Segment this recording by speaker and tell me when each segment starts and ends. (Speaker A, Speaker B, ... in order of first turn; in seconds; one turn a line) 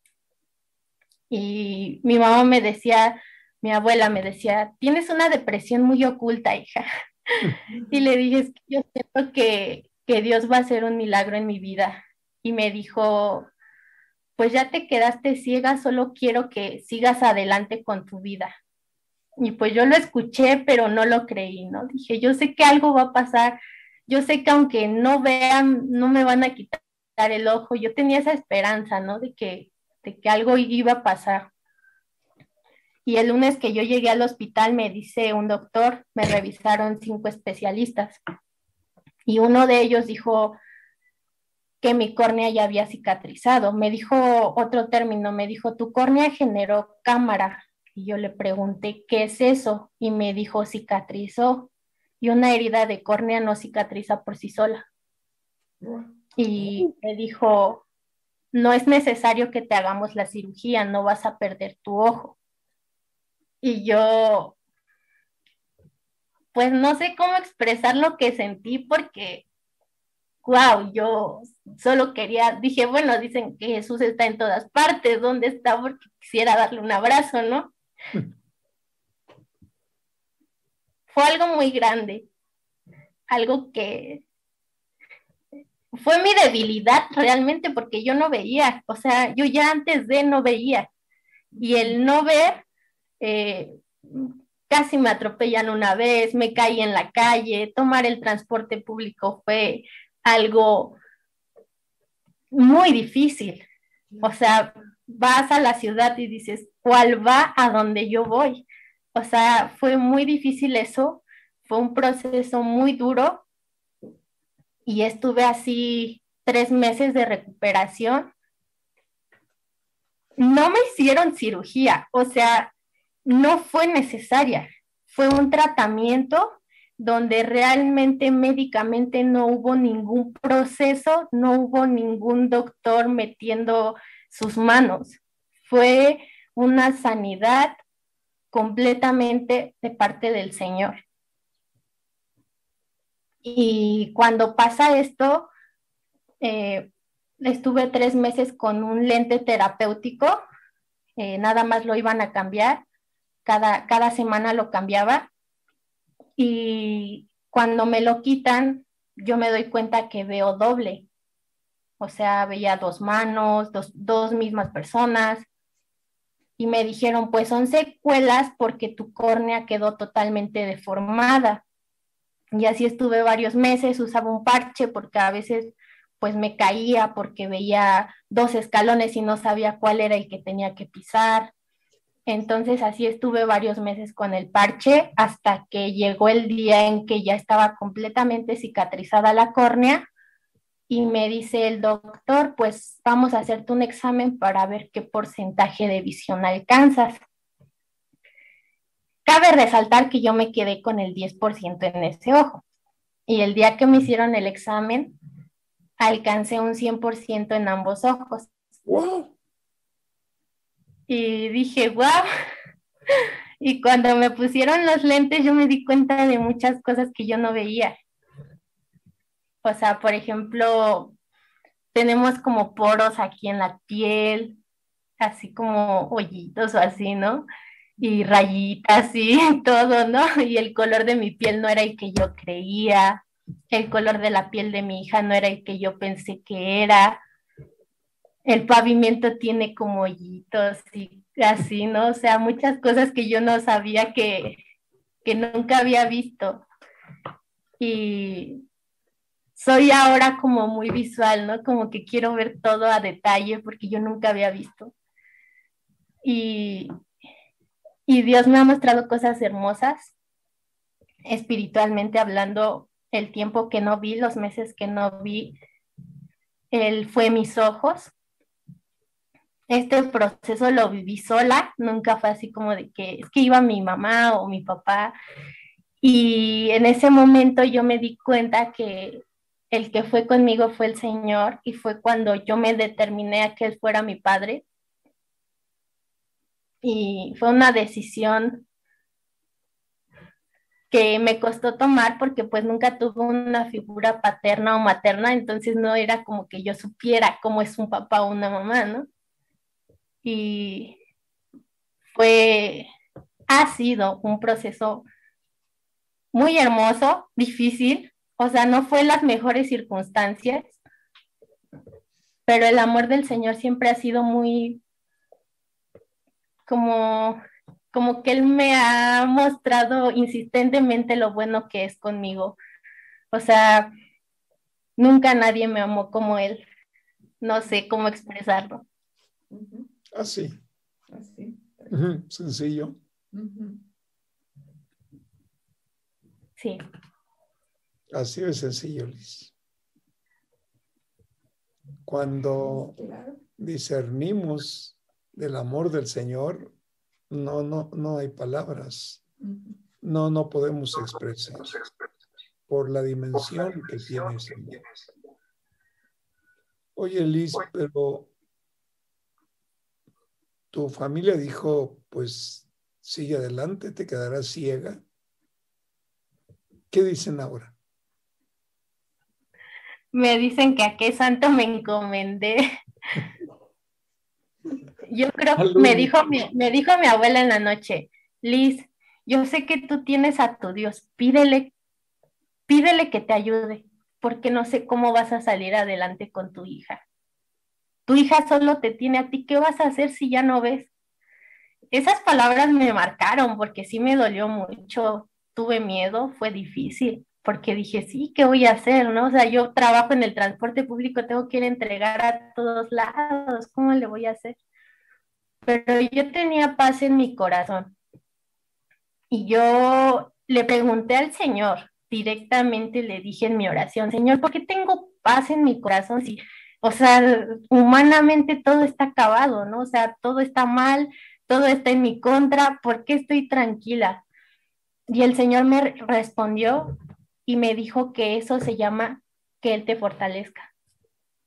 Speaker A: 1.3-6.9
Speaker A: 7.9-13.5
Speaker A: 14.4-18.6
Speaker A: 19.4-31.5
Speaker A: 33.0-38.2
Speaker A: 39.3-40.6
Speaker A: 41.8-51.7
Speaker A: 52.2-54.9
Speaker B: 55.8-56.1
Speaker A: 56.4-57.8
Speaker A: 58.5-62.4
Speaker A: 63.6-64.6
Speaker A: 66.5-69.5
Speaker A: 70.4-77.7
Speaker A: 81.1-82.3
Speaker A: 83.3-84.2
Speaker A: 85.9-90.9
Speaker A: 91.6-92.6
Speaker A: 93.2-101.0
Speaker A: 102.5-103.7
Speaker A: 104.2-113.4
Speaker A: 114.9-118.3
Speaker A: 120.4-122.7
Speaker A: 123.2-137.8
Speaker A: 138.5-141.0
Speaker A: 143.4-145.5
Speaker A: 146.4-146.9
Speaker A: 147.4-150.4
Speaker A: 151.2-152.8
Speaker A: 153.4-155.3
Speaker A: 156.4-161.1
Speaker A: 162.0-165.5
Speaker A: 166.6-171.6
Speaker A: 172.5-181.5
Speaker A: 182.3-190.1
Speaker A: 190.9-197.2
Speaker A: 199.3-202.6
Speaker A: 203.3-205.2
Speaker A: 206.0-208.5
Speaker C: 208.9-209.3
Speaker A: 211.1-212.2
Speaker A: 213.6-218.0
Speaker A: 219.6-221.2
Speaker A: 221.9-224.6
Speaker A: 225.2-227.5
Speaker A: 228.0-237.2
Speaker A: 238.4-244.6
Speaker A: 245.2-246.6
Speaker A: 247.8-248.6
Speaker A: 249.6-254.9
Speaker A: 256.2-256.9
Speaker A: 258.1-260.1
Speaker A: 261.3-265.6
Speaker A: 266.7-268.1
Speaker A: 269.7-275.1
Speaker A: 276.0-284.6
Speaker A: 286.8-288.6
Speaker A: 290.9-299.1
Speaker A: 300.2-301.0
Speaker A: 302.1-302.9
Speaker A: 303.5-305.1
Speaker A: 306.3-310.8
Speaker A: 312.5-314.8
Speaker A: 316.7-317.4
Speaker A: 317.9-322.6
Speaker A: 323.3-323.9
Speaker A: 325.0-326.6
Speaker A: 327.4-328.9
Speaker B: 329.5-330.0
Speaker C: 330.1-330.6
Speaker B: 331.1-332.0
Speaker C: 331.9-333.0
Speaker B: 333.3-333.9
Speaker C: 338.1-339.5
Speaker C: 342.1-342.9
Speaker B: 342.6-343.4
Speaker C: 343.6-346.7
Speaker C: 347.3-349.2
Speaker B: 349.4-349.8
Speaker C: 350.0-351.8
Speaker C: 352.7-354.8
Speaker C: 357.0-358.3
Speaker C: 360.7-365.0
Speaker C: 366.9-367.8
Speaker A: 370.1-372.6
Speaker A: 375.1-381.7
Speaker C: 375.6-376.2
Speaker A: 382.7-387.0
Speaker A: 388.1-390.9
Speaker A: 391.9-404.6
Speaker A: 405.6-407.9
Speaker A: 409.3-424.2
Speaker A: 425.1-426.9
Speaker A: 427.5-430.7